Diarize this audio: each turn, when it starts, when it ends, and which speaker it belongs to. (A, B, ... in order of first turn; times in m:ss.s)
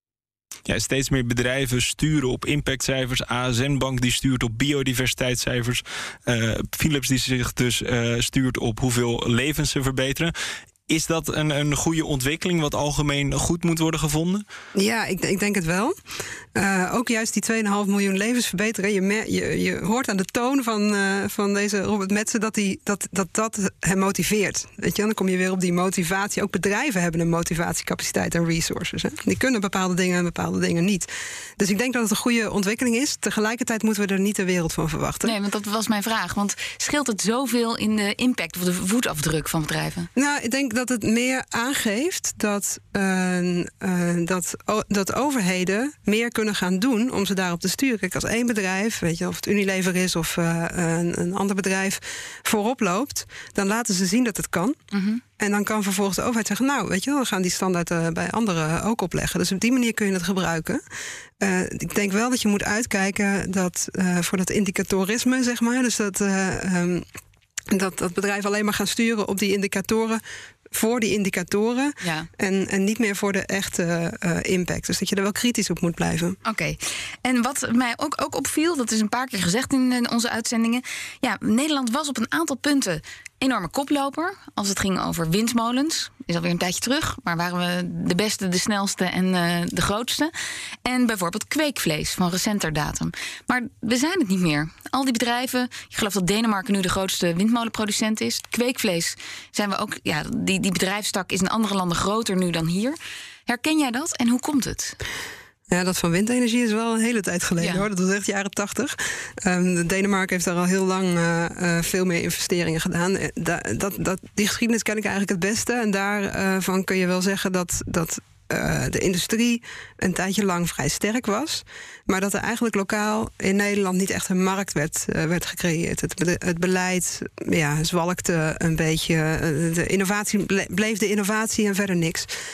0:00.7-0:10.3 A
0:10.9-0:14.4 A
0:14.7-0:15.9 B
0:16.5-0:35.3 B
0:35.2-0:40.1 C
0:40.2-0:54.8 B
0:54.9-0:55.2 C
0:55.4-1:00.8 B
1:01.4-1:07.0 B
1:07.7-1:16.4 B
1:12.0-1:12.3 C
1:16.4-1:30.3 C
1:30.8-1:45.0 C
1:45.7-2:12.3 B
1:47.6-1:47.8 C